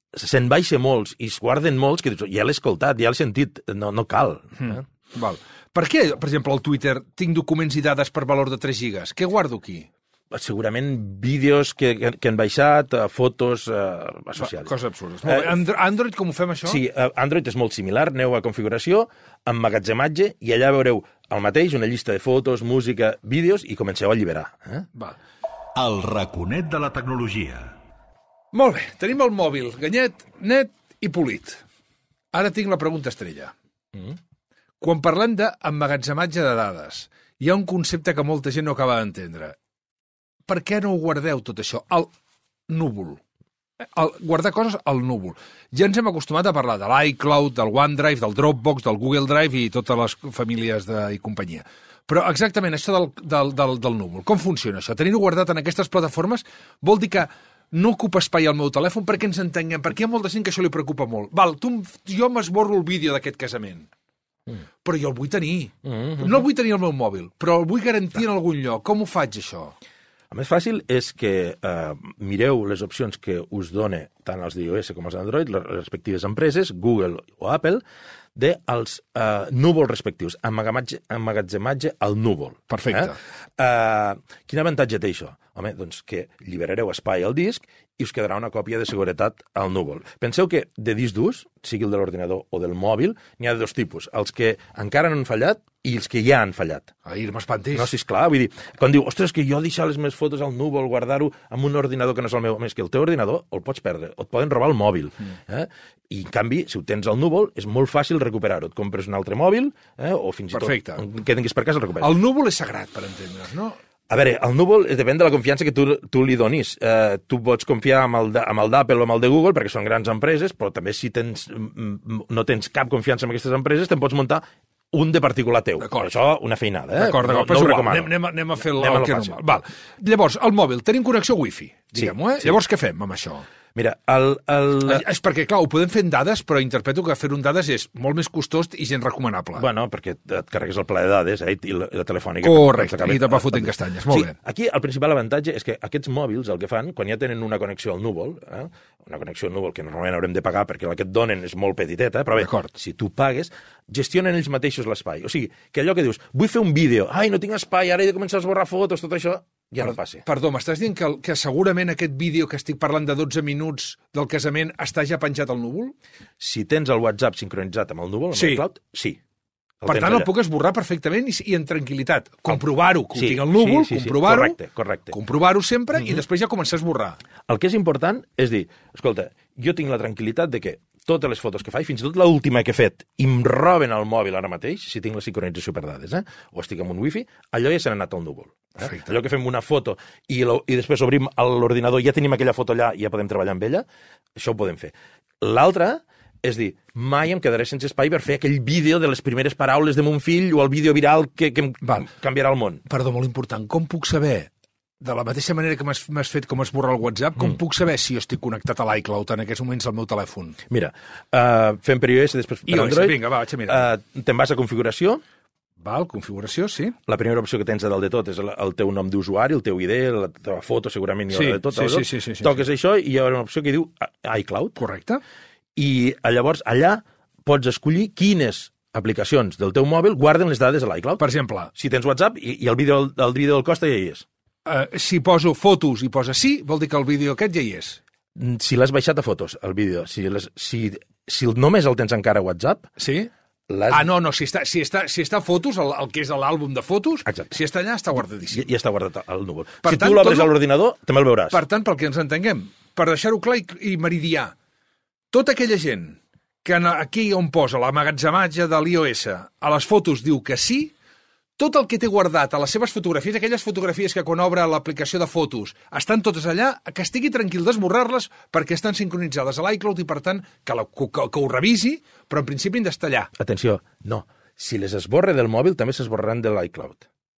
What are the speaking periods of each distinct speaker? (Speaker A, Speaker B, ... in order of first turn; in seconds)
Speaker A: 0.1-4.8, 10.3-14.7, 15.2-15.6, 16.6-24.9, 65.8-66.2, 70.3-77.8, 78.3-96.9, 97.7-112.1, 114.1-129.5, 131.9-132.5, 133.7-135.0, 139.6-160.2, 166.4-169.2, 169.8-170.3, 173.1-175.1, 177.5-193.8, 194.3-202.8, 210.7-215.2, 217.1-224.8, 225.8-231.2, 231.7-234.2, 238.3-242.9, 243.7-244.1, 247.2-247.5, 248.5-251.6, 273.4-277.0
Speaker B: 4.6-9.9, 14.4-16.8, 28.5-31.6, 32.3-33.5, 34.8-39.5, 40.5-42.1, 42.7-43.2, 43.9-63.9, 64.8-69.7, 82.7-83.2, 97.0-97.9, 110.5-111.0, 112.0-113.8, 125.8-126.1, 127.0-133.4, 134.8-139.7, 142.4-144.3, 152.3-152.7, 159.8-165.9, 168.3-168.6, 169.9-174.6, 175.1-177.2, 202.8-204.5, 205.0-210.6, 212.7-213.9, 215.8-216.9, 221.3-222.6, 224.8-225.2, 231.2-231.7, 234.6-238.0, 243.0-243.3, 243.9-248.7, 249.8-250.5, 251.5-254.5, 255.3-260.9, 261.6-273.3
Speaker C: 25.7-27.7